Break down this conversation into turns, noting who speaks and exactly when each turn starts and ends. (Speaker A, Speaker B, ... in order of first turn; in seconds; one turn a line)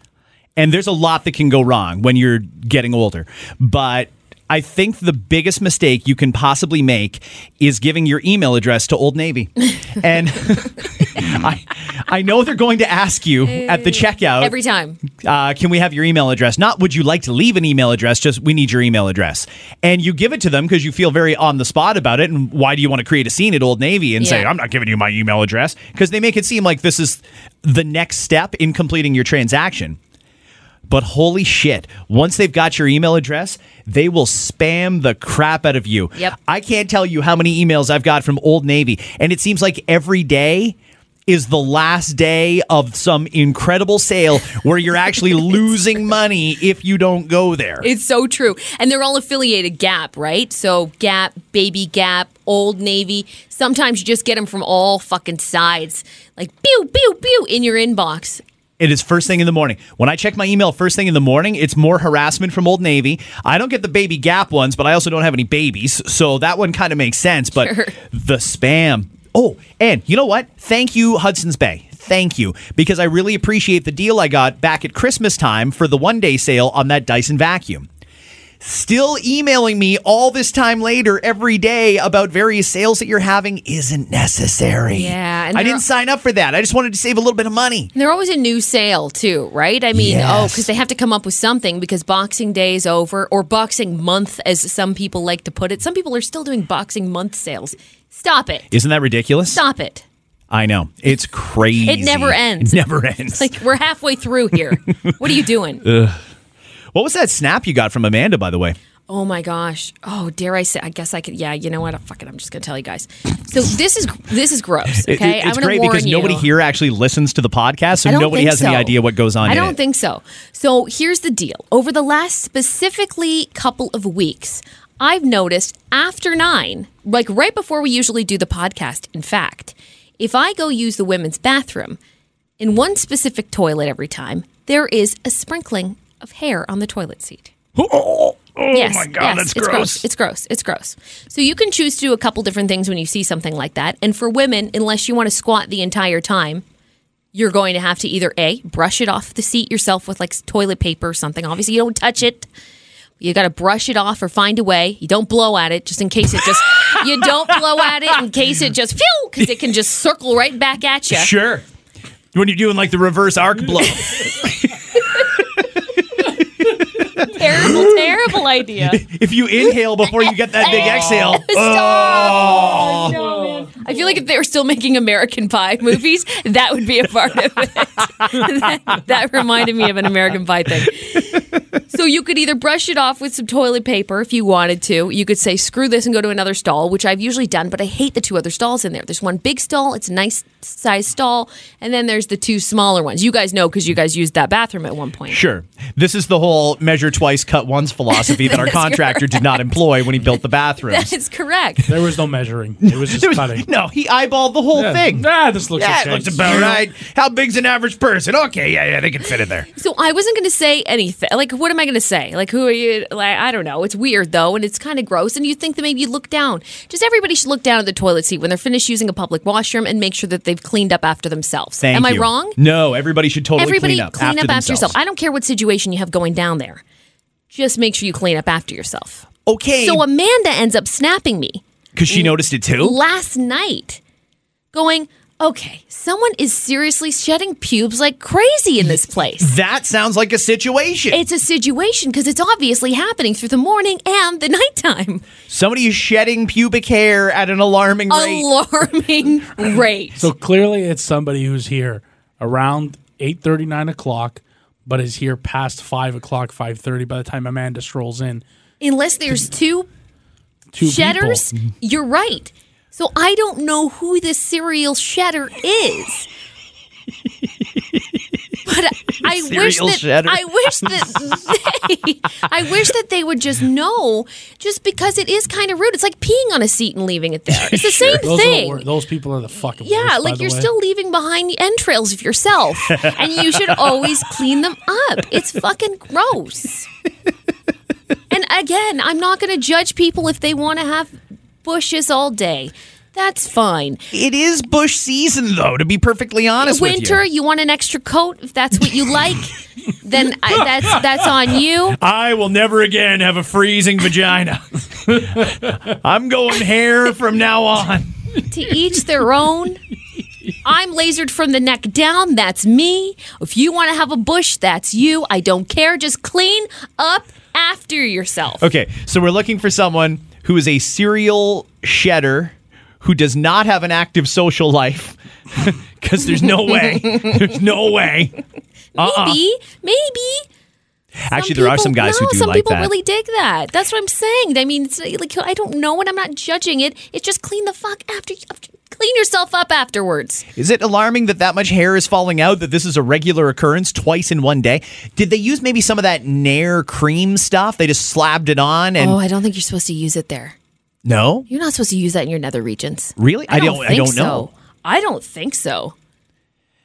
Speaker A: 0.6-14.6
Speaker B: 13.4-15.0
Speaker A: 15.1-30.0
Speaker B: 24.2-24.5
Speaker A: 30.9-40.8
Speaker A: 41.3-47.9
Speaker B: 47.8-58.4
Speaker A: 58.8-77.9
Speaker B: 67.6-68.0
Speaker A: 78.6-87.9
Speaker B: 84.9-85.8
Speaker B: 88.0-98.7
Speaker A: 89.9-90.7
Speaker A: 98.7-99.6
Speaker B: 99.5-100.0
Speaker A: 100.5-103.5
Speaker B: 101.8-105.8
Speaker A: 105.8-106.2
Speaker A: 106.9-108.8
Speaker B: 109.1-116.5
Speaker A: 115.0-119.8
Speaker B: 118.0-132.0
Speaker B: 132.6-137.5
Speaker A: 137.8-140.1
Speaker B: 138.7-146.6
Speaker B: 147.3-152.5
Speaker B: 153.2-161.3
Speaker A: 156.9-157.9
Speaker A: 161.1-161.7
Speaker A: 162.3-165.4
Speaker A: 166.1-168.2
Speaker B: 167.3-169.0
Speaker A: 168.8-173.3
Speaker B: 170.0-195.4
Speaker A: 195.3-201.1
Speaker B: 198.1-201.9
Speaker C: 201.9-203.7
Speaker A: 202.8-209.7
Speaker C: 204.7-206.8
Speaker B: 209.7-222.6
Speaker A: 221.8-225.0
Speaker B: 223.6-226.8
Speaker B: 227.5-229.3
Speaker A: 229.5-230.0
Speaker B: 229.8-234.0
Speaker A: 232.0-233.0
Speaker B: 234.7-239.5
Speaker A: 239.4-241.2
Speaker B: 241.1-245.3
Speaker A: 245.5-248.5
Speaker B: 248.1-250.3
Speaker C: 250.2-258.4
Speaker B: 258.8-259.9
Speaker C: 260.7-261.5
Speaker B: 260.8-266.3
Speaker B: 268.7-278.9
Speaker A: 269.2-270.4
Speaker A: 277.5-278.2
Speaker C: 278.1-280.7
Speaker B: 279.7-286.9
Speaker B: 288.3-291.1
Speaker B: 291.6-294.0
Speaker A: 294.1-297.2
Speaker B: 296.6-302.0
Speaker A: 300.6-300.9
Speaker A: 301.9-308.1
Speaker B: 308.5-309.8
Speaker B: 310.6-318.7
Speaker A: 318.6-328.4
Speaker B: 328.9-330.5
Speaker A: 329.0-329.4
Speaker A: 331.2-332.9
Speaker B: 331.3-340.5
Speaker A: 340.6-349.2
Speaker B: 349.0-350.6
Speaker A: 351.1-351.5
Speaker B: 351.5-355.9
Speaker A: 353.2-354.5